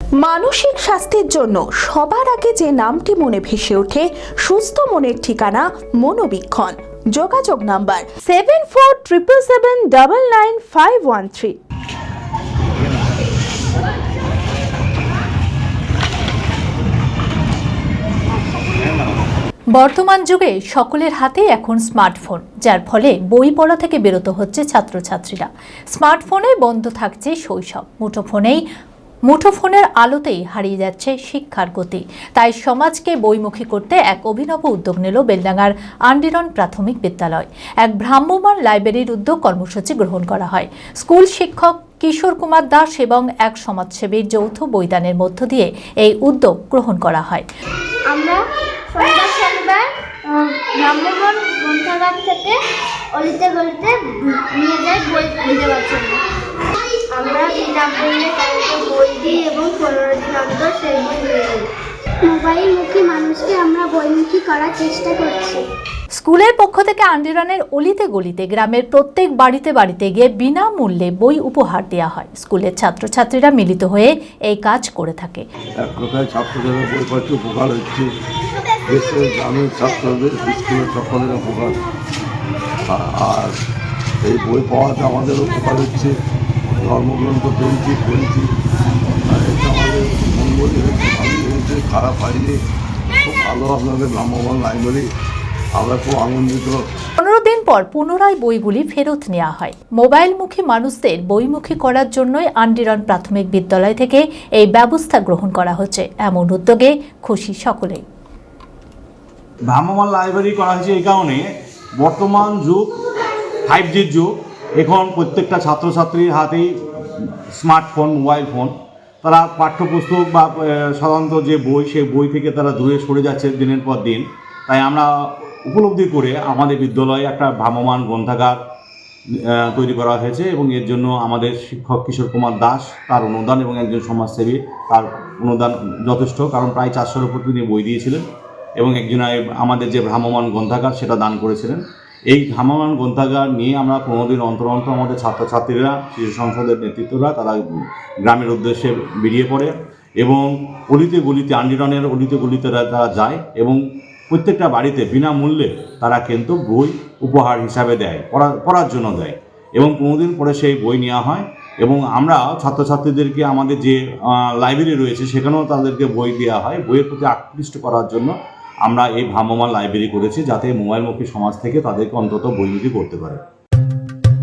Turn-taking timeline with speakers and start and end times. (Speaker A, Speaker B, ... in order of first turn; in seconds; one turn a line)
Speaker A: 0.2-11.6
Speaker B: 19.7-28.6
Speaker B: 29.3-47.5
Speaker C: 48.1-56.2
Speaker C: 57.1-61.7
Speaker C: 62.2-65.7
Speaker B: 66.2-75.4
Speaker D: 75.8-78.1
Speaker D: 78.9-81.8
Speaker D: 82.9-83.6
Speaker D: 84.2-86.1
Speaker D: 86.8-88.5
Speaker D: 89.1-92.6
Speaker D: 93.2-95.0
Speaker D: 95.8-96.8
Speaker B: 97.2-108.0
Speaker E: 109.7-111.5
Speaker E: 112.0-112.9
Speaker E: 113.7-118.7
Speaker E: 119.2-128.6
Speaker E: 129.5-138.2
Speaker E: 138.8-147.6
Speaker E: 148.2-168.3
Speaker E: 168.8-173.4